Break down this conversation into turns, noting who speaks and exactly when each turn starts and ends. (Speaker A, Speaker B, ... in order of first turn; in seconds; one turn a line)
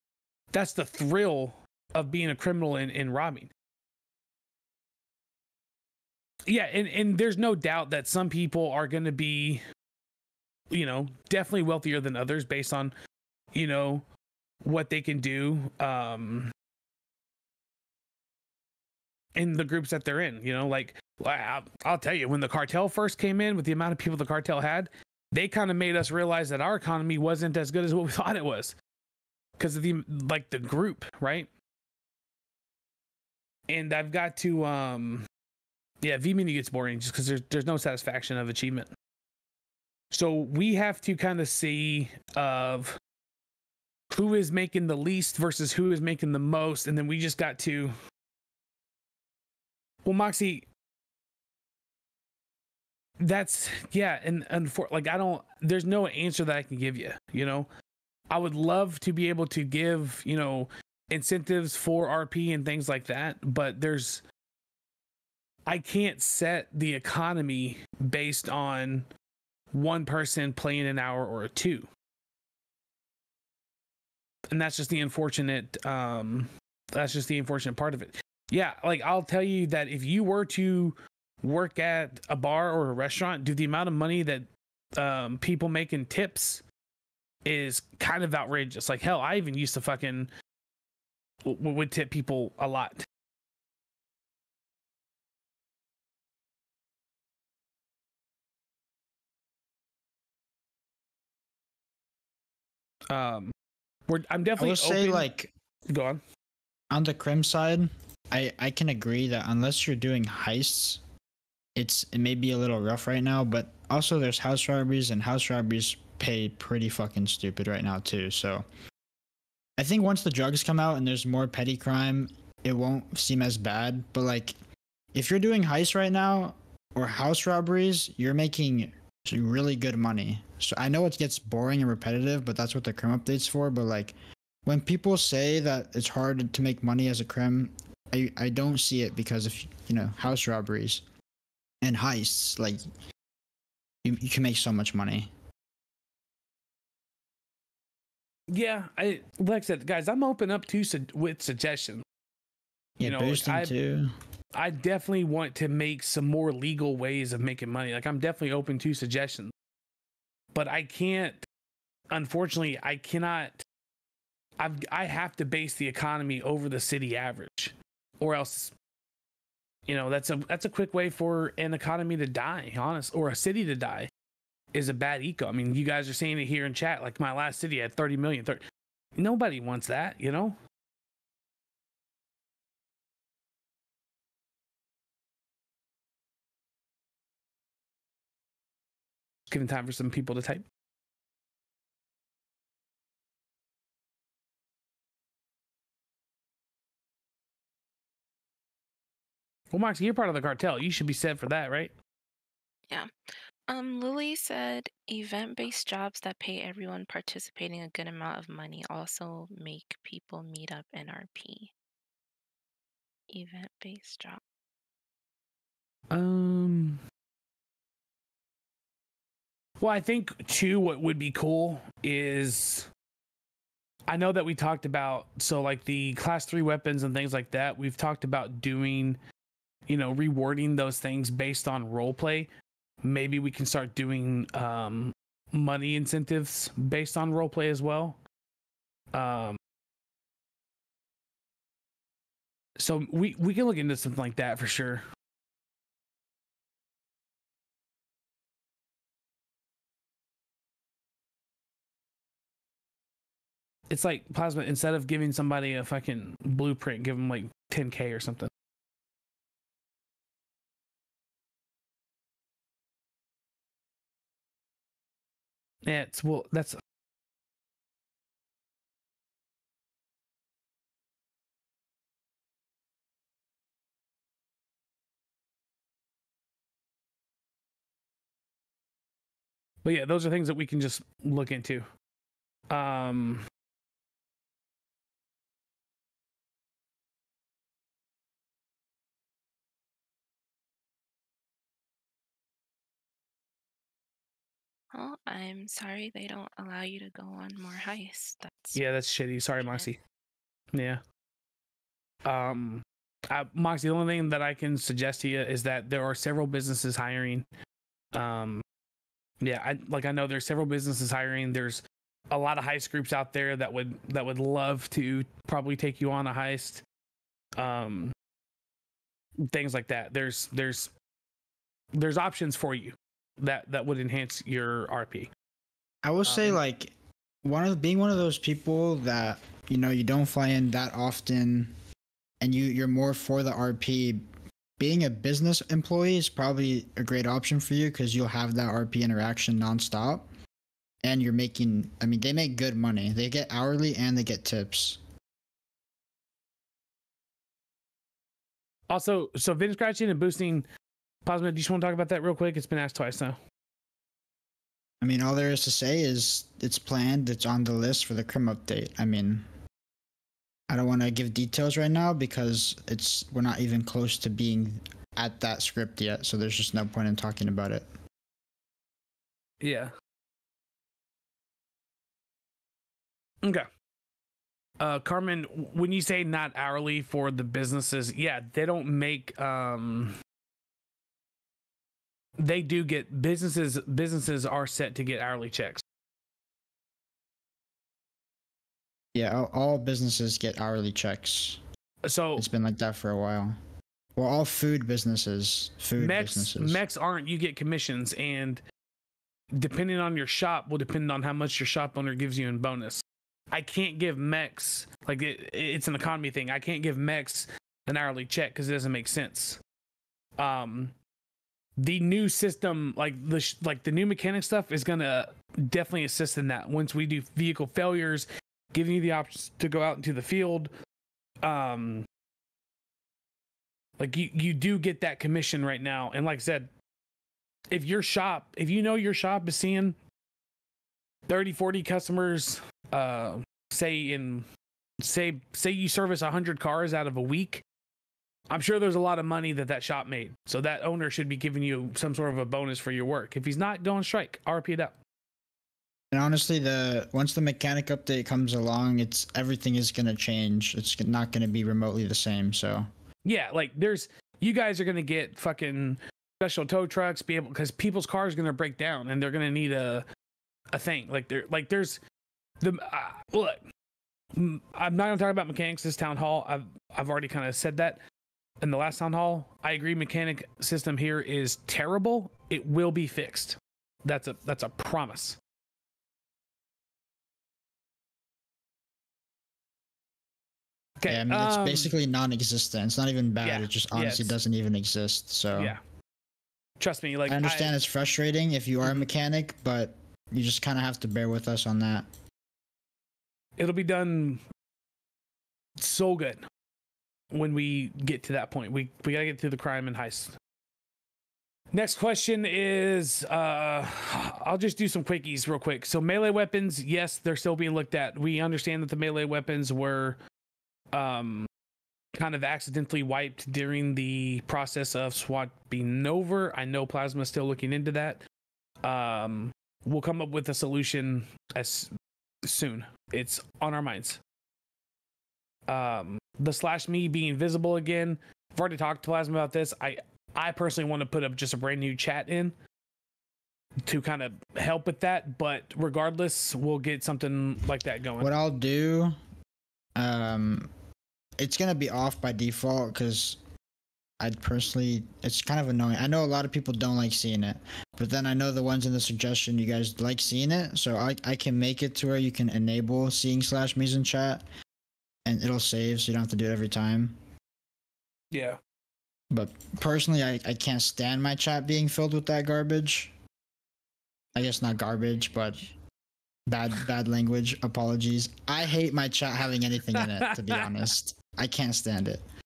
Speaker A: 0.5-3.5
Speaker A: 6.5-9.6
Speaker A: 10.7-12.9
Speaker A: 13.5-14.1
Speaker A: 14.6-16.5
Speaker A: 19.3-28.7
Speaker A: 29.6-31.5
Speaker A: 33.7-35.2
Speaker A: 36.0-38.9
Speaker A: 40.1-43.0
Speaker A: 44.1-47.9
Speaker A: 50.0-50.7
Speaker A: 53.2-57.7
Speaker A: 58.3-64.2
Speaker A: 65.7-69.1
Speaker A: 69.7-71.9
Speaker A: 74.5-86.6
Speaker A: 87.4-90.3
Speaker A: 91.4-93.0
Speaker A: 103.1-103.5
Speaker A: 104.1-105.3
Speaker B: 104.6-105.5
Speaker A: 105.9-106.2
Speaker B: 106.9-111.0
Speaker B: 111.7-118.6
Speaker B: 119.8-124.5
Speaker B: 125.1-141.0
Speaker B: 141.8-142.8
Speaker B: 144.0-145.3
Speaker A: 148.5-152.0
Speaker B: 153.0-154.1
Speaker A: 153.0-153.7
Speaker A: 154.5-159.5
Speaker A: 160.5-161.4
Speaker A: 162.1-163.6
Speaker A: 164.6-168.7
Speaker A: 169.9-174.1
Speaker A: 174.7-178.6
Speaker A: 179.2-180.6
Speaker A: 189.5-190.6
Speaker A: 199.7-201.9
Speaker C: 203.7-211.7
Speaker C: 213.3-214.4
Speaker A: 216.1-217.0
Speaker A: 219.8-222.9
Speaker A: 224.1-229.2
Speaker A: 229.9-232.5
Speaker A: 233.0-238.2
Speaker A: 239.1-239.6
Speaker A: 242.8-245.0
Speaker A: 253.9-258.5
Speaker A: 265.8-266.8
Speaker A: 279.8-281.9
Speaker A: 282.7-283.4
Speaker C: 294.9-298.8
Speaker A: 298.7-300.0
Speaker C: 299.6-299.9
Speaker A: 300.7-301.0
Speaker A: 302.2-307.5
Speaker A: 308.1-308.6
Speaker A: 309.4-316.8
Speaker A: 317.6-318.1
Speaker A: 319.5-320.9
Speaker A: 321.9-325.3
Speaker B: 326.0-331.7
Speaker A: 326.2-326.6
Speaker B: 332.4-334.2
Speaker B: 334.8-340.3
Speaker B: 341.0-345.0
Speaker A: 348.9-350.7
Speaker A: 351.2-353.4
Speaker B: 355.0-359.4
Speaker B: 360.7-367.9
Speaker A: 369.6-369.9
Speaker A: 374.8-380.1
Speaker A: 382.4-385.8
Speaker B: 389.1-391.6
Speaker A: 392.0-392.5
Speaker B: 392.4-393.5
Speaker B: 394.1-396.8
Speaker A: 396.0-398.6
Speaker A: 399.5-409.6
Speaker A: 410.4-410.9
Speaker A: 411.8-420.7
Speaker A: 421.4-422.1
Speaker A: 424.0-426.7
Speaker A: 427.7-430.0
Speaker A: 431.3-434.4
Speaker A: 435.0-437.6
Speaker A: 438.5-445.0
Speaker B: 446.1-452.9
Speaker A: 453.2-460.0
Speaker A: 460.7-462.0
Speaker A: 462.6-463.6
Speaker A: 464.4-468.0
Speaker A: 468.6-475.4
Speaker A: 481.0-481.9
Speaker B: 481.1-485.8
Speaker A: 483.4-484.4
Speaker A: 485.5-485.8
Speaker A: 486.8-487.7
Speaker B: 487.3-492.1
Speaker A: 493.6-494.4
Speaker A: 495.8-496.4
Speaker A: 497.3-500.3
Speaker A: 501.7-510.2
Speaker A: 510.9-511.5
Speaker A: 512.1-518.2
Speaker A: 518.8-521.9
Speaker A: 522.4-524.2
Speaker A: 525.7-532.5
Speaker A: 533.9-538.3
Speaker B: 538.2-539.2
Speaker B: 540.0-540.7
Speaker B: 541.4-543.4
Speaker B: 544.2-554.4
Speaker B: 555.2-557.2
Speaker A: 558.3-558.6
Speaker B: 559.3-563.1
Speaker B: 564.3-565.7
Speaker B: 566.5-572.2
Speaker A: 569.9-570.9